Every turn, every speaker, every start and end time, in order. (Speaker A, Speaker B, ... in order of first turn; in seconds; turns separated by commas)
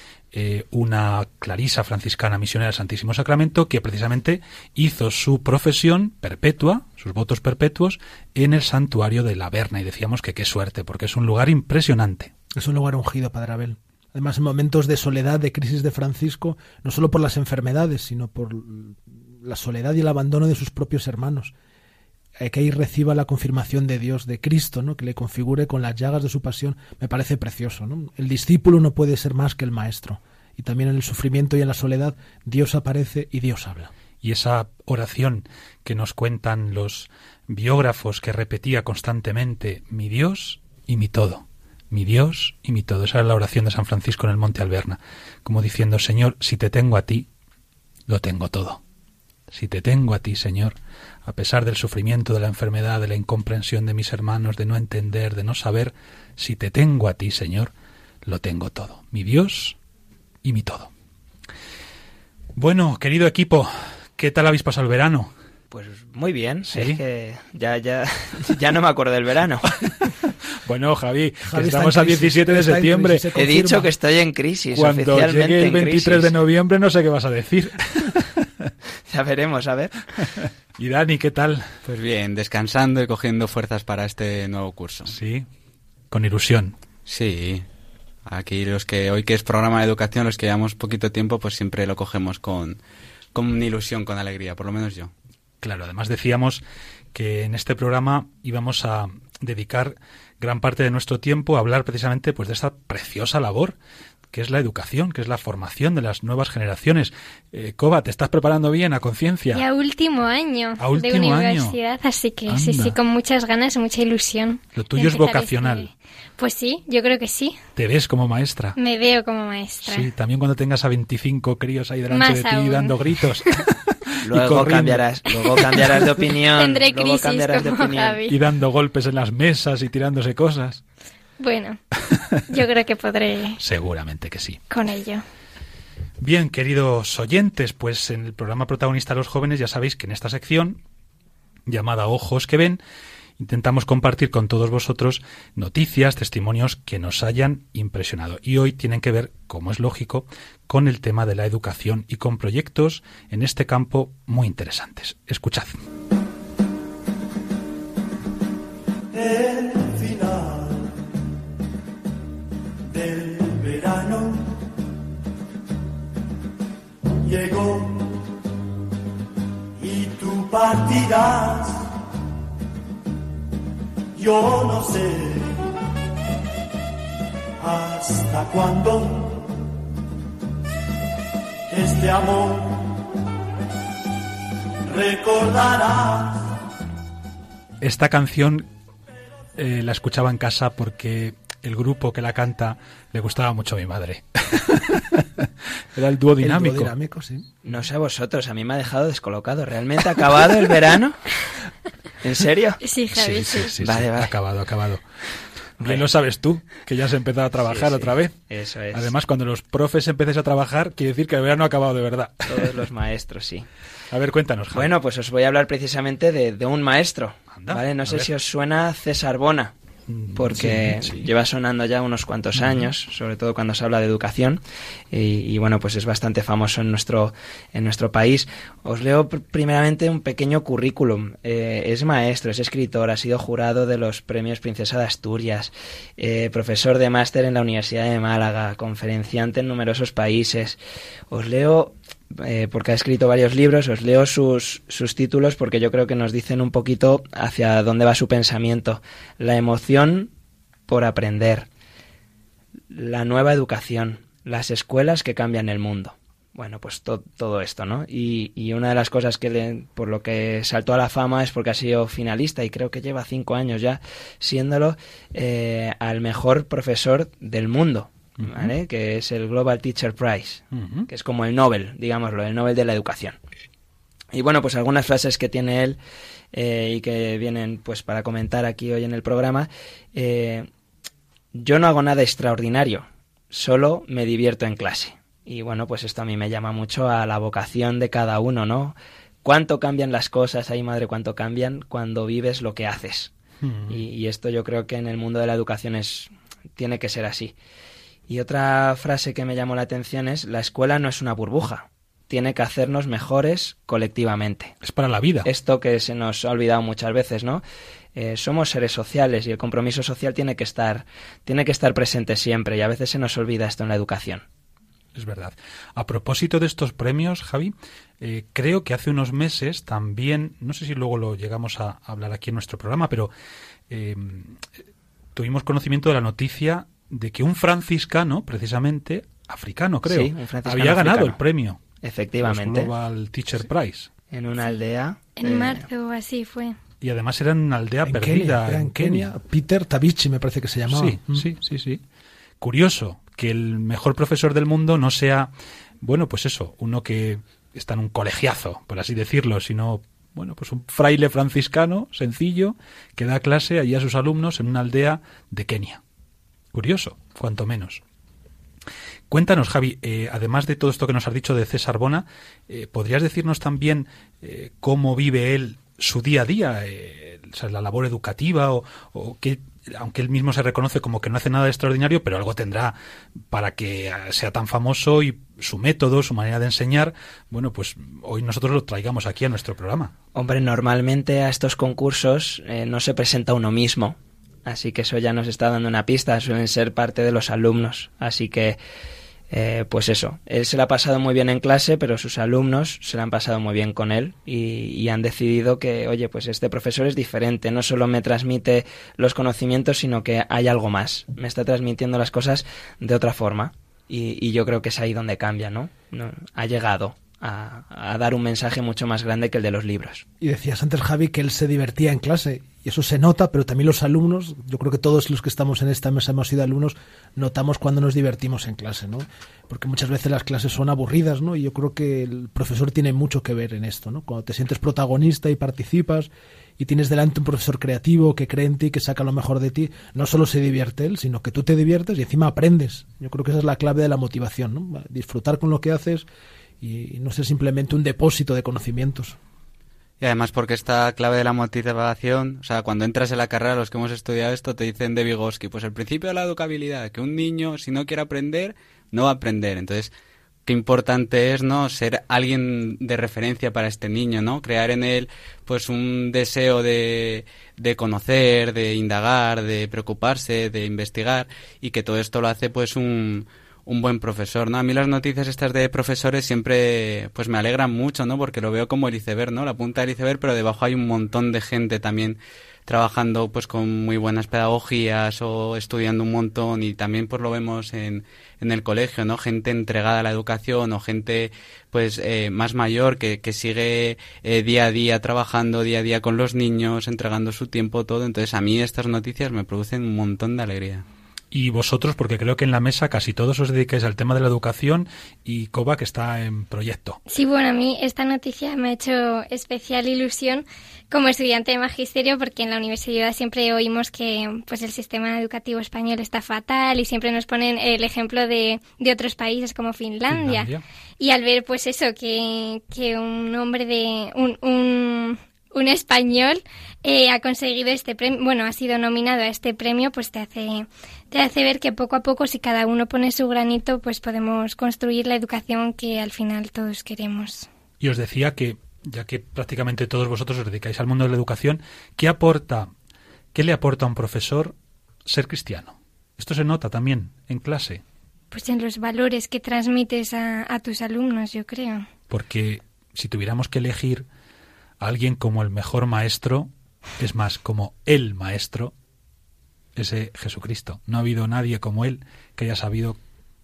Speaker A: 0.3-12.3, Speaker B: 12.5-21.5, Speaker B: 22.4-33.9, Speaker A: 34.2-47.3, Speaker A: 48.1-48.8, Speaker A: 49.5-57.7, Speaker A: 58.2-59.8, Speaker A: 60.4-60.9, Speaker A: 62.5-65.3, Speaker C: 65.7-69.8, Speaker A: 66.7-67.0, Speaker A: 69.8-70.1, Speaker A: 70.6-73.2, Speaker B: 71.4-73.9, Speaker C: 73.3-76.3, Speaker A: 74.7-78.7, Speaker C: 79.1-80.1, Speaker A: 80.2-81.8, Speaker D: 81.8-85.1, Speaker A: 85.1-85.5, Speaker A: 86.1-86.8, Speaker D: 87.0-87.6, Speaker D: 88.2-92.8, Speaker D: 93.3-95.1, Speaker A: 95.6-96.6, Speaker A: 97.1-103.8, Speaker A: 104.3-109.6, Speaker E: 109.5-117.6, Speaker A: 110.8-111.8, Speaker A: 112.5-113.0, Speaker A: 114.8-115.9, Speaker A: 117.8-118.8, Speaker E: 118.8-120.1, Speaker A: 119.8-125.8, Speaker E: 122.1-123.6, Speaker C: 124.2-128.2, Speaker E: 126.5-128.4, Speaker A: 128.3-130.8, Speaker E: 131.4-131.8, Speaker E: 132.5-133.6, Speaker A: 133.6-134.6, Speaker E: 134.7-135.2, Speaker A: 136.2-140.8, Speaker A: 141.7-142.8, Speaker A: 143.4-155.8, Speaker F: 159.1-160.9, Speaker F: 162.9-164.6, Speaker F: 167.2-168.2, Speaker F: 169.8-171.9, Speaker F: 174.2-175.6, Speaker F: 177.6-179.5, Speaker F: 181.7-183.0, Speaker F: 184.8-186.6, Speaker A: 187.8-188.7, Speaker A: 189.6-196.9, Speaker B: 196.4-197.5, Speaker C: 197.6-201.2, Speaker C: 202.2-202.8, Speaker E: 202.8-203.7, Speaker A: 203.1-205.0, Speaker C: 203.8-204.3, Speaker A: 205.8-208.4, Speaker C: 207.7-209.1, Speaker A: 208.9-212.7, Speaker C: 212.5-213.7, Speaker A: 214.1-214.9, Speaker C: 214.7-219.7, Speaker A: 217.5-218.3, Speaker A: 220.1-221.3, Speaker C: 220.3-224.6, Speaker C: 225.1-240.8, Speaker C: 241.3-250.3, Speaker C: 250.9-251.7, Speaker C: 252.9-273.4, Speaker A: 268.4-268.7, Speaker A: 270.7-271.1, Speaker C: 274.3-276.0, Speaker C: 276.5-280.7, Speaker C: 281.5-293.3, Speaker A: 293.6-294.0, Speaker C: 293.9-297.5, Speaker C: 298.3-304.8, Speaker A: 304.8-305.5, Speaker C: 305.4-307.6, Speaker C: 308.1-314.4, Speaker A: 315.1-323.3, Speaker A: 323.9-324.7, Speaker A: 325.3-331.8, Speaker C: 330.1-331.4, Speaker C: 332.0-332.9, Speaker A: 332.4-334.1, Speaker C: 334.3-335.9, Speaker E: 335.4-336.8, Speaker A: 337.0-339.3, Speaker B: 338.0-341.4, Speaker A: 340.9-342.0, Speaker A: 342.6-345.5, Speaker A: 346.0-356.0, Speaker A: 356.7-358.0, Speaker A: 359.3-372.9, Speaker A: 373.5-380.1, Speaker C: 380.3-388.8, Speaker C: 389.5-410.2, Speaker B: 410.4-436.2, Speaker B: 436.8-439.4, Speaker D: 440.2-450.1, Speaker D: 450.6-491.0, Speaker A: 491.5-497.2, Speaker E: 497.3-510.7, Speaker A: 510.3-510.8, Speaker E: 511.2-527.7, Speaker A: 528.0-532.9, Speaker A: 533.5-534.7, Speaker A: 535.2-538.0, Speaker E: 538.5-542.1, Speaker A: 542.3-544.2, Speaker A: 545.0-548.9, Speaker A: 550.0-553.2